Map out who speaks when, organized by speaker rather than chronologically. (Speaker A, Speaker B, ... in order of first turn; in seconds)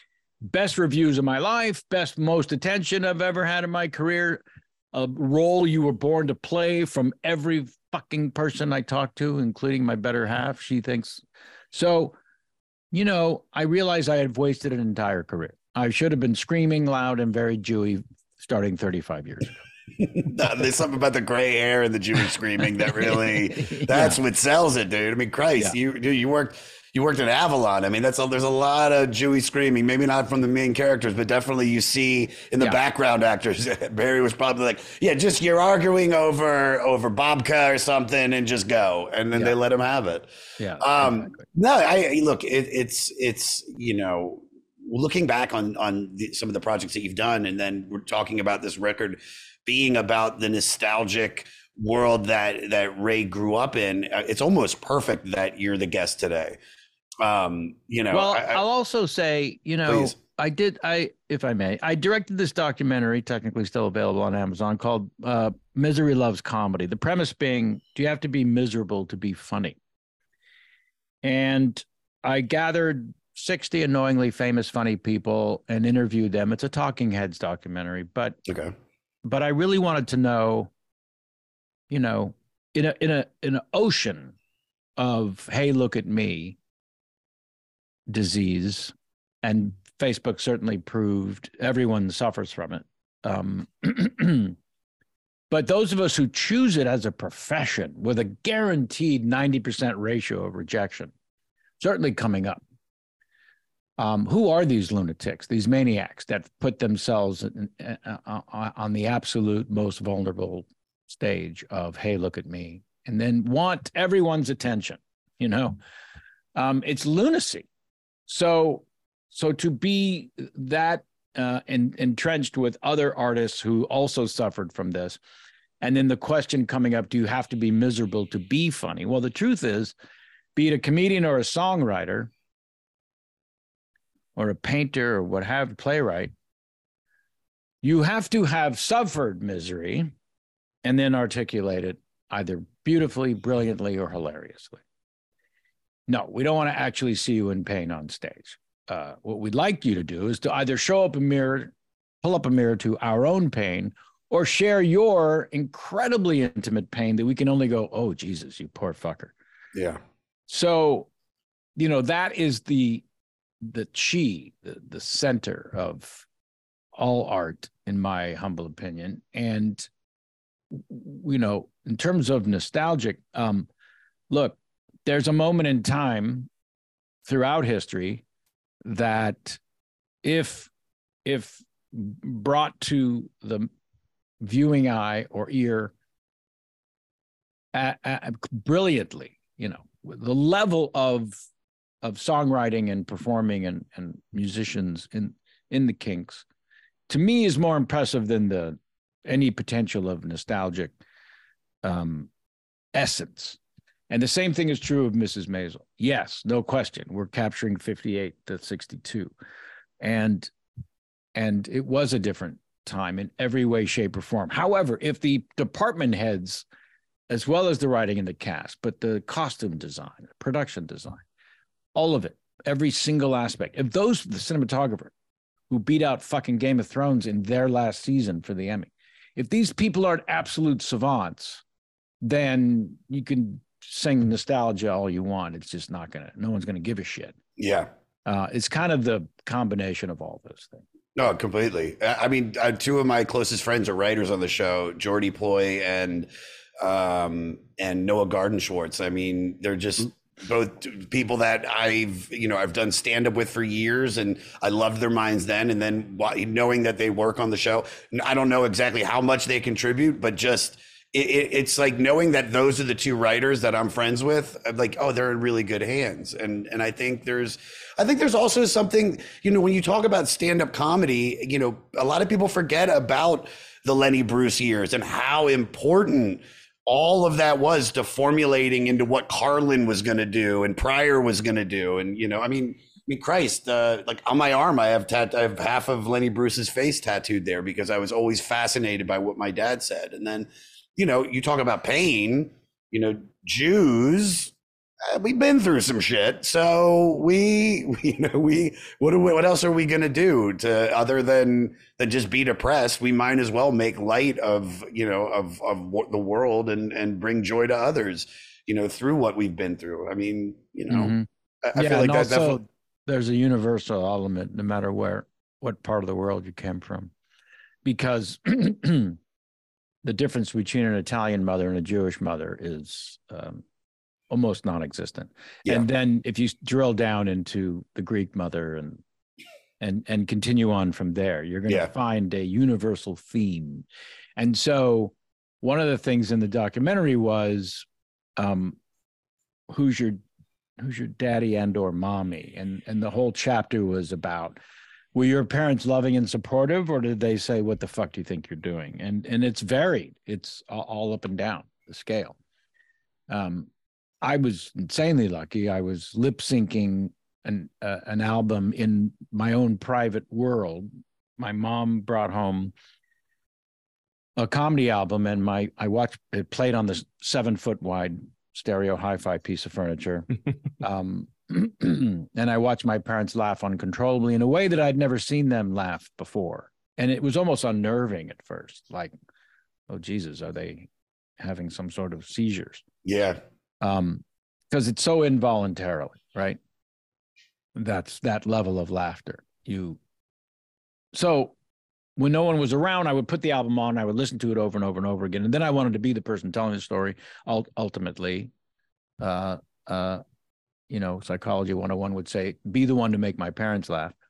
Speaker A: 0.5-12.1, 12.9-19.6, 22.8-24.2, 40.6-41.4, 58.1-69.8, 71.2-78.4, 79.2-80.7, 81.9-84.3, 85.0-86.5, 88.1-94.5, 95.5-101.1, 101.8-102.6, 104.0-115.8, 116.5-117.7, 118.3-125.2, 125.8-129.9, 130.6-132.3, 134.3-136.3, 137.8-140.1, 140.8-144.8, 146.1-159.3, 160.5-161.1, 161.8-163.0, 163.6-166.2, 166.9-169.9, 170.7-173.7, 174.3-176.5, 177.2-178.2, 178.8-179.6, 180.2-180.7, 181.2-183.7, 184.4-185.9, 187.7-191.4, 192.0-196.4, 197.1-201.0, 201.8-202.3, 202.9-203.6, 204.1-209.3, 210.0-210.5, 211.3-216.6, 217.3-221.2, 221.9-225.1, 225.7-231.6, 232.2-237.3, 238.2-240.8, 310.9-317.1, 317.8-319.2, 320.0-323.6, 324.3-329.0, 329.8-333.8, 334.4-337.9, 338.4-338.8, 339.7-340.2, 340.8-344.6, 345.1-352.4, 353.3-353.7, 354.2-362.7, 364.4-370.3, 370.8-379.1, 379.9-380.9, 381.4-382.8, 383.8-386.6, 387.7-390.0, 391.1-391.5, 392.2-398.5, 399.2-400.2, 400.9-404.1
Speaker B: 20.0-40.3, 40.8-56.6, 57.2-58.6, 59.9-60.1, 78.5-78.7, 237.6-237.9, 241.2-246.3, 246.8-294.5, 295.1-312.6, 383.0-383.4